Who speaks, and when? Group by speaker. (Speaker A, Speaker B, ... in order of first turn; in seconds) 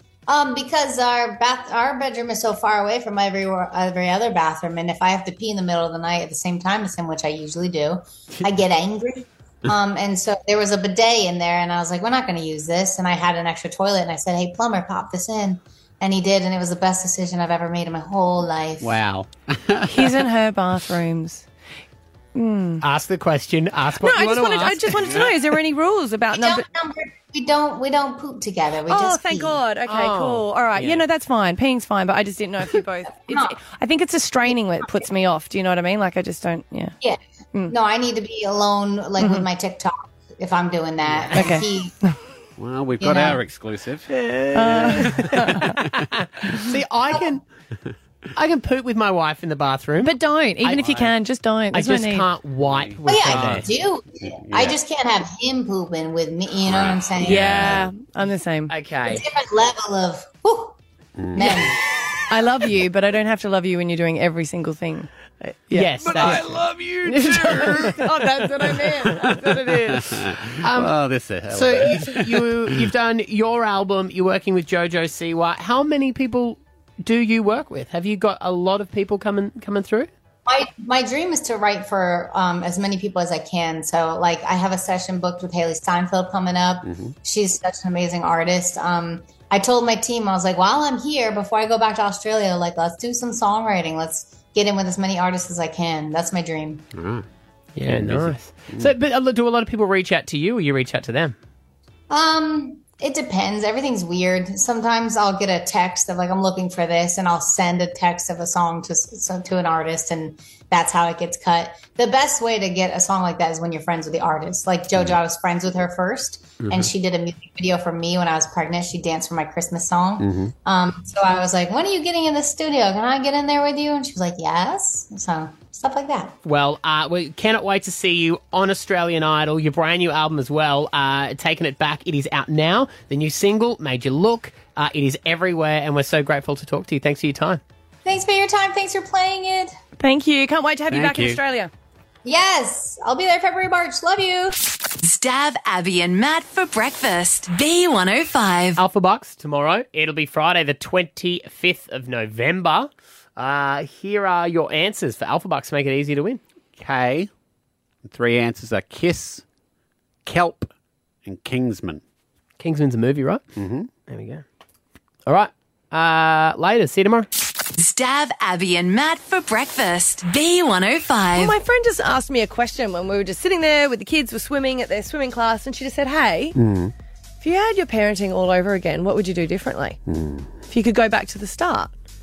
Speaker A: 0.3-18.9, 26.3-29.6, 33.3-33.6, 37.0-42.0, 43.0-43.4, 53.1-57.8, 59.1-60.8, 61.3-61.8, 80.5-96.8, 102.1-126.3, 138.1-139.7, 142.2-144.6
Speaker B: 18.8-20.2, 42.6-44.1, 44.7-45.8, 50.8-51.1, 52.7-53.6, 54.4-54.8, 56.7-57.8, 61.2-61.7, 69.9-72.5, 86.9-87.1, 96.9-97.2, 97.9-98.9, 120.2-120.5, 140.9-141.4, 156.8-157.3, 158.1-159.4, 160.3-160.7, 161.2-162.0, 163.6-163.9, 176.6-176.9, 180.1-180.5
Speaker C: 19.9-21.4, 22.4-22.8, 24.0-26.7, 28.9-37.0, 41.4-41.6, 44.5-45.7, 50.0-52.3, 57.2-58.7, 62.3-70.1, 140.0-141.7, 171.3-176.6, 177.4-180.0, 180.7-181.9
Speaker D: 22.8-25.3, 29.9-31.0, 44.1-47.4, 48.4-50.8, 51.7-53.6, 57.2-57.7, 58.7-59.2, 65.7-68.1, 70.6-70.9, 71.5-80.1, 97.8-101.3, 126.4-137.6, 148.8-156.4, 162.6-163.4, 164.1-164.4, 165.3-167.3
Speaker E: 145.0-148.8, 167.8-171.6